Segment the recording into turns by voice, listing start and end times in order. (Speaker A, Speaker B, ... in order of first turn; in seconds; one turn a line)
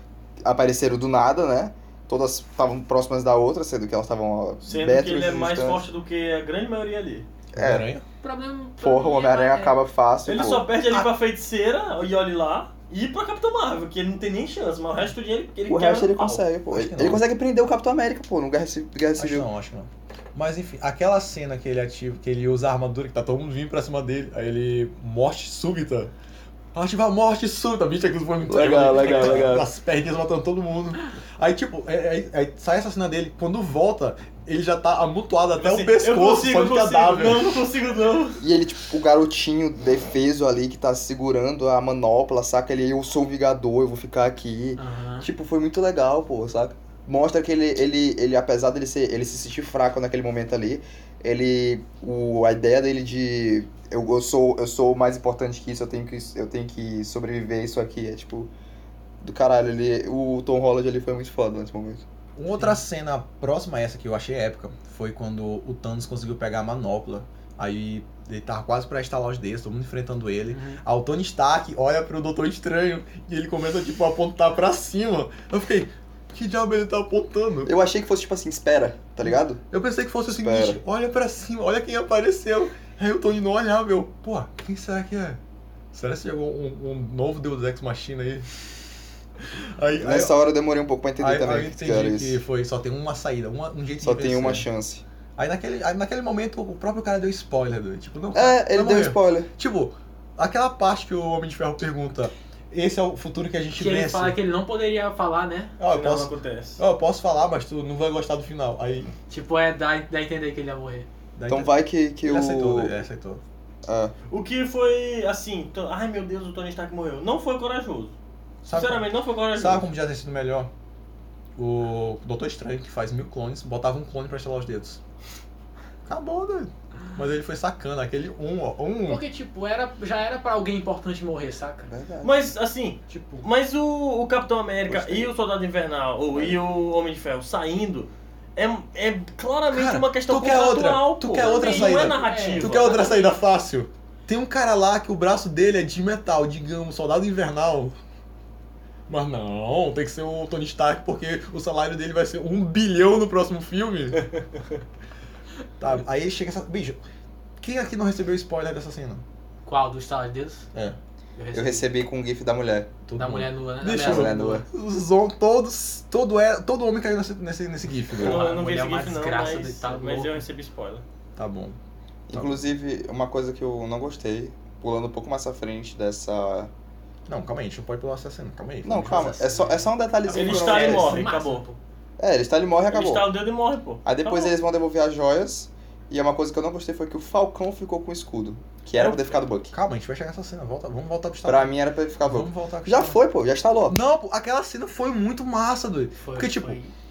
Speaker A: 0.4-5.8
Speaker B: 4.6-7.3
Speaker A: 7.5-7.9
Speaker C: 7.6-8.0
Speaker D: 8.2-9.8
Speaker A: 8.8-10.7
Speaker B: 10.3-16.4
Speaker A: 15.7-19.5
Speaker C: 16.7-17.2
Speaker C: 19.2-26.1
Speaker C: 26.7-37.5
Speaker A: 28.4-29.7
Speaker B: 35.6-38.4
Speaker A: 38.4-58.5
Speaker D: 44.8-45.3
Speaker A: 59.2-62.0
Speaker C: 62.4-77.7
Speaker D: 70.5-70.8
Speaker A: 77.7-79.6
Speaker C: 79.2-85.4
Speaker A: 80.3-80.8
Speaker C: 85.9-88.5
Speaker C: 89.4-90.3
Speaker A: 90.0-92.4
Speaker C: 91.2-94.7
Speaker A: 94.0-95.0
Speaker C: 95.4-104.4
Speaker A: 98.3-99.5
Speaker D: 103.8-105.8
Speaker C: 105.8-109.1
Speaker B: 105.9-106.8
Speaker D: 109.3-111.1
Speaker C: 111.4-113.4
Speaker A: 111.5-113.0
Speaker A: 113.9-114.1
Speaker B: 114.3-118.1
Speaker C: 118.7-120.7
Speaker B: 118.7-119.8
Speaker C: 121.6-125.0
Speaker C: 126.1-129.2
Speaker D: 129.1-131.9
Speaker A: 131.9-132.5
Speaker B: 132.2-143.1
Speaker D: 133.1-133.5
Speaker A: 134.9-135.3
Speaker C: 139.7-148.0
Speaker D: 141.4-143.3
Speaker C: 149.1-154.3
Speaker C: 155.8-157.0
Speaker C: 157.6-159.2
Speaker D: 159.7-160.7
Speaker D: 161.4-161.9
Speaker A: 161.5-162.9
Speaker C: 163.1-168.4
Speaker D: 163.2-164.6
Speaker A: 163.9-164.7
Speaker B: 168.2-171.0
Speaker D: 168.2-170.4
Speaker C: 171.4-171.8
Speaker A: 172.3-176.7
Speaker C: 172.3-172.7
Speaker C: 177.3-179.3
Speaker A: 178.8-181.3
Speaker D: 179.0-181.8
Speaker B: 180.3-181.6
Speaker A: 182.2-183.3
Speaker B: 182.9-184.6
Speaker A: 184.1-189.7
Speaker B: 188.9-189.5
Speaker C: 189.7-193.2
Speaker A: 191.4-194.0
Speaker C: 193.9-196.8
Speaker D: 196.2-196.9